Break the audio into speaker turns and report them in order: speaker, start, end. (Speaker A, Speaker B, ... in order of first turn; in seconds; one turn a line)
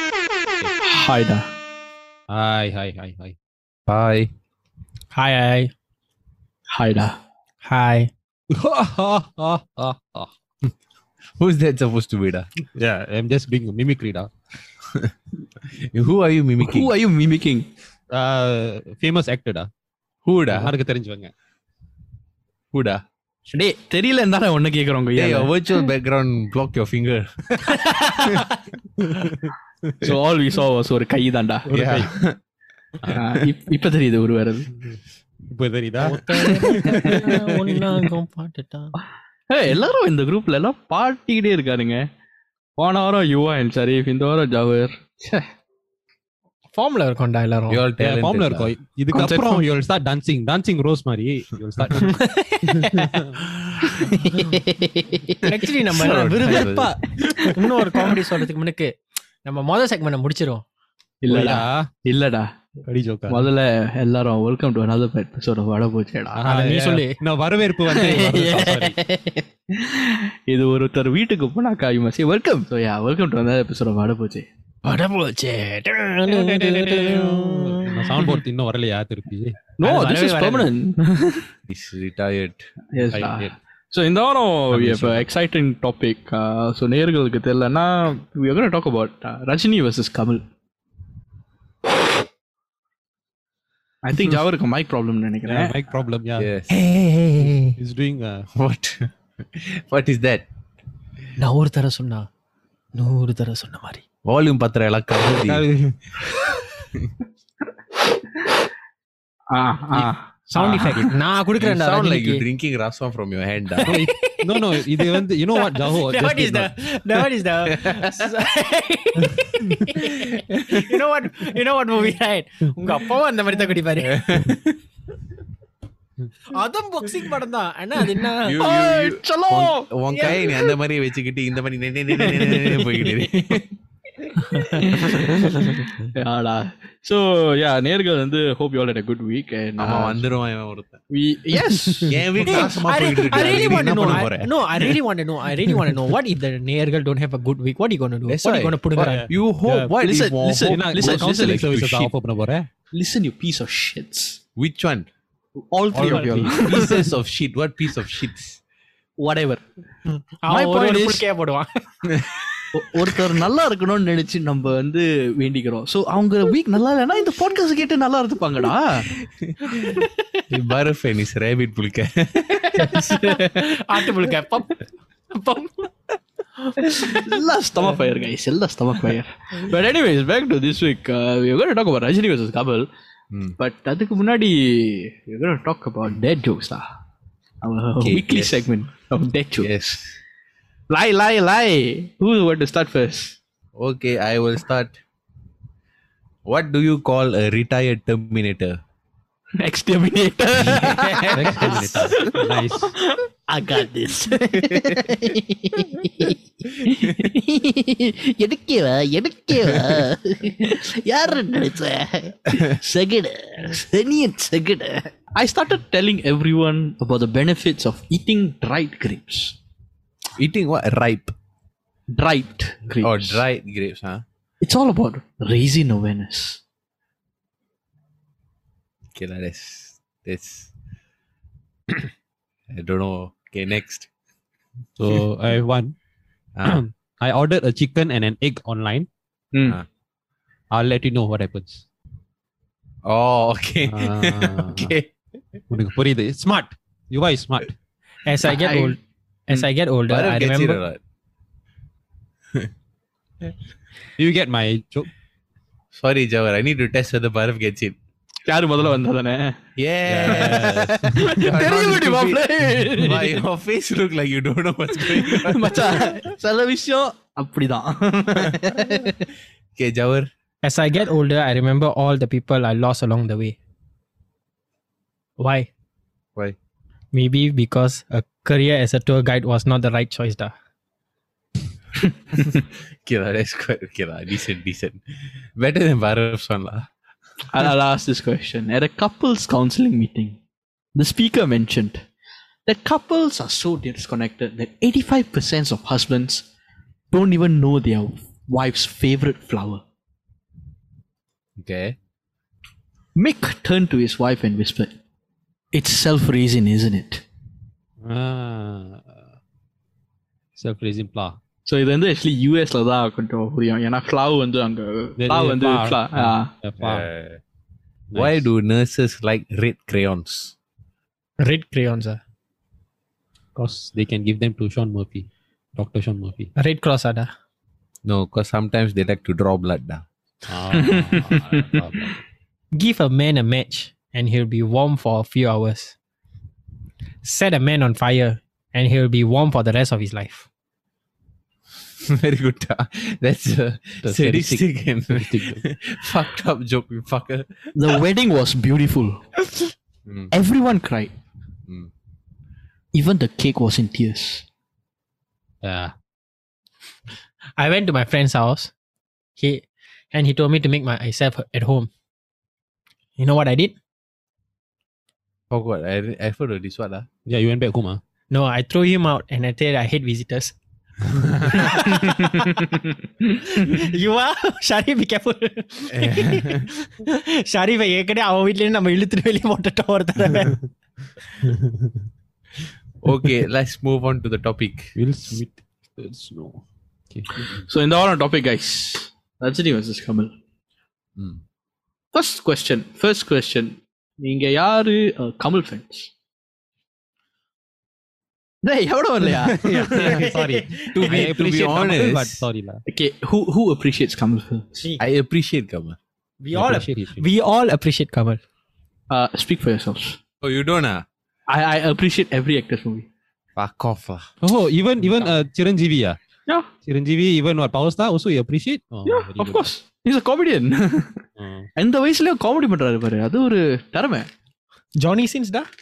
Speaker A: 0.8-1.5
Speaker B: 2.3-3.4
Speaker C: 3.9-4.3
Speaker D: 5.1-5.7
Speaker A: 6.7-7.2
Speaker D: 7.6-8.1
Speaker B: 8.5-10.7
Speaker C: 11.4-12.5
Speaker B: 12.7-14.3
Speaker C: 14.8-15.1
Speaker C: 15.6-16.9
Speaker A: 16.6-17.7
Speaker B: 18.1-19.7
Speaker C: 20.2-20.7
Speaker B: 20.5-21.3
Speaker C: 22.7-23.0
Speaker A: 23.5-25.9
Speaker C: 25.1-27.4
Speaker C: 28.2-28.4
Speaker B: 29.0-29.9
Speaker A: 30.0-31.8
Speaker C: 31.7-32.4
Speaker B: 31.7-32.1
Speaker A: 33.1-34.7
Speaker B: 35.5-37.9
Speaker D: 36.0-38.9
Speaker A: 39.5-42.0
Speaker A: 42.8-45.5
Speaker D: 46.7-47.8
Speaker C: 47.7-48.7
Speaker B: 48.0-53.3
Speaker A: 49.1-49.6
Speaker D: 52.0-53.2
Speaker C: 53.6-54.1
Speaker A: 54.2-55.4
Speaker D: 55.4-58.9
Speaker C: 55.6-57.3
Speaker D: 59.4-60.6
Speaker A: 61.2-62.5
Speaker B: 61.3-61.9
Speaker C: 61.3-61.6
Speaker B: 62.9-63.5
Speaker A: 63.3-66.4
Speaker B: 66.3-69.0
Speaker D: 66.4-67.2
Speaker A: 67.9-74.5
Speaker D: 74.8-78.2
Speaker B: 76.3-79.6
Speaker A: 79.8-81.4
Speaker D: 79.8-80.7
Speaker C: 81.7-82.7
Speaker A: 82.9-90.4
Speaker B: 83.1-83.5
Speaker B: 84.7-85.2
Speaker A: 94.0-95.8
Speaker B: 95.5-96.5
Speaker C: 96.4-96.8
Speaker D: 96.7-97.8
Speaker B: 97.4-98.5
Speaker C: 98.5-100.5
Speaker D: 101.4-102.3
Speaker D: 102.9-104.0
Speaker C: 104.2-105.6
Speaker B: 105.3-106.0
Speaker A: 109.5-110.2
Speaker D: 110.5-112.4
Speaker C: 110.7-113.9
Speaker D: 113.8-124.2
Speaker B: 113.8-116.7
Speaker C: 117.7-118.3
Speaker C: 120.1-120.9
Speaker C: 124.0-124.8
Speaker D: 126.5-128.6
Speaker C: 128.4-133.6
Speaker A: 128.6-130.7
Speaker D: 130.1-130.4
Speaker A: 132.1-133.7
Speaker A: 134.5-140.2
Speaker D: 134.5-135.4
Speaker C: 139.8-141.0
Speaker A: 141.1-142.6
Speaker C: 142.1-144.9
Speaker D: 142.4-149.3
Speaker A: 143.5-143.8
Speaker B: 143.9-144.2
Speaker C: 148.3-152.1
Speaker B: 149.0-149.9
Speaker A: 150.0-151.7
Speaker B: 150.6-152.7
Speaker A: 152.9-154.4
Speaker C: 154.6-155.1
Speaker A: 155.7-157.1
Speaker B: 155.9-156.8
Speaker D: 156.0-156.3
Speaker C: 156.5-158.6
Speaker A: 159.2-159.6
Speaker D: 160.1-161.8
Speaker A: 160.5-161.2
Speaker C: 162.1-162.6
Speaker A: 162.7-169.1
Speaker C: 169.3-173.3
Speaker D: 172.7-175.9
Speaker A: 173.0-173.5
Speaker D: 176.6-177.4
Speaker A: 177.0-182.9
Speaker A: 183.6-186.8
Speaker A: 187.6-190.0
Speaker C: 188.0-188.7
Speaker C: 189.6-190.0
Speaker A: 190.9-193.3
Speaker C: 193.8-195.0
Speaker C: 196.5-198.8
Speaker A: 199.6-219.6
Speaker B: 201.3-202.9
Speaker C: 204.5-205.1
Speaker C: 209.7-210.0
Speaker C: 220.4-221.3
Speaker A: 222.1-223.4
Speaker C: 223.0-224.2
Speaker A: 224.6-226.6
Speaker C: 229.1-230.7
Speaker C: 232.7-234.1
Speaker B: 235.0-235.9
Speaker C: 236.6-236.8
Speaker B: 236.6-239.1
Speaker A: 239.5-239.8
Speaker B: 240.7-241.8
Speaker C: 243.0-245.1
Speaker B: 243.8-244.9
Speaker B: 245.7-247.7
Speaker D: 248.2-249.0
Speaker A: 248.4-248.9
Speaker D: 249.5-250.8
Speaker C: 249.5-251.0
Speaker B: 254.2-255.1
Speaker C: 255.9-257.9
Speaker A: 258.5-259.6
Speaker C: 259.8-266.1
Speaker B: 260.1-261.2
Speaker A: 260.2-263.4
Speaker B: 262.8-263.2
Speaker A: 265.0-269.2
Speaker C: 269.8-270.3
Speaker D: 270.6-273.6
Speaker D: 275.4-275.7
Speaker D: 277.1-280.5
Speaker C: 283.0-285.0
Speaker C: 285.6-286.9
Speaker A: 287.5-290.4
Speaker A: 290.9-292.0
Speaker A: 292.7-296.4
Speaker A: 297.1-299.8
Speaker C: 301.6-301.9
Speaker A: 303.1-304.9
Speaker A: 305.7-307.2
Speaker B: 308.0-309.2
Speaker B: 310.6-311.4
Speaker A: 311.6-316.5
Speaker B: 315.2-317.1
Speaker C: 316.8-317.4
Speaker B: 318.1-318.5
Speaker C: 318.1-320.5
Speaker D: 321.4-322.2
Speaker B: 323.5-326.5
Speaker D: 326.6-327.3
Speaker C: 328.0-330.1
Speaker B: 330.5-332.2
Speaker A: 330.7-331.8
Speaker D: 332.7-335.9
Speaker D: 337.2-340.5
Speaker C: 342.0-347.7
Speaker B: 344.0-345.6
Speaker A: 347.7-349.4
Speaker C: 350.1-350.3
Speaker A: 350.3-351.1
Speaker A: 352.9-354.4
Speaker B: 355.6-355.9
Speaker D: 357.6-358.7
Speaker D: 359.4-361.9
Speaker D: 363.2-363.7
Speaker C: 365.5-367.1
Speaker B: 367.2-368.0
Speaker D: 368.3-370.6
Speaker D: 371.5-372.5
Speaker A: 372.2-372.5
Speaker D: 373.4-380.6
Speaker C: 375.9-376.7
Speaker B: 381.4-382.0
Speaker C: 383.0-385.4
Speaker B: 384.9-387.5
Speaker A: 387.5-390.3
Speaker C: 391.1-391.4
Speaker A: 392.1-396.1
Speaker A: 398.6-400.0
Speaker B: 399.6-402.8
Speaker D: 400.0-401.1
Speaker C: 400.9-402.4
Speaker A: 402.9-404.8
Speaker C: 405.0-406.0
Speaker D: 406.4-408.4
Speaker B: 406.5-407.2
Speaker A: 409.1-410.2
Speaker C: 410.4-411.0
Speaker A: 411.5-413.1
Speaker C: 413.6-414.3
Speaker B: 414.4-416.2
Speaker B: 416.8-419.7
Speaker A: 419.1-421.2
Speaker B: 421.4-421.7
Speaker A: 421.8-424.3
Speaker D: 425.0-425.7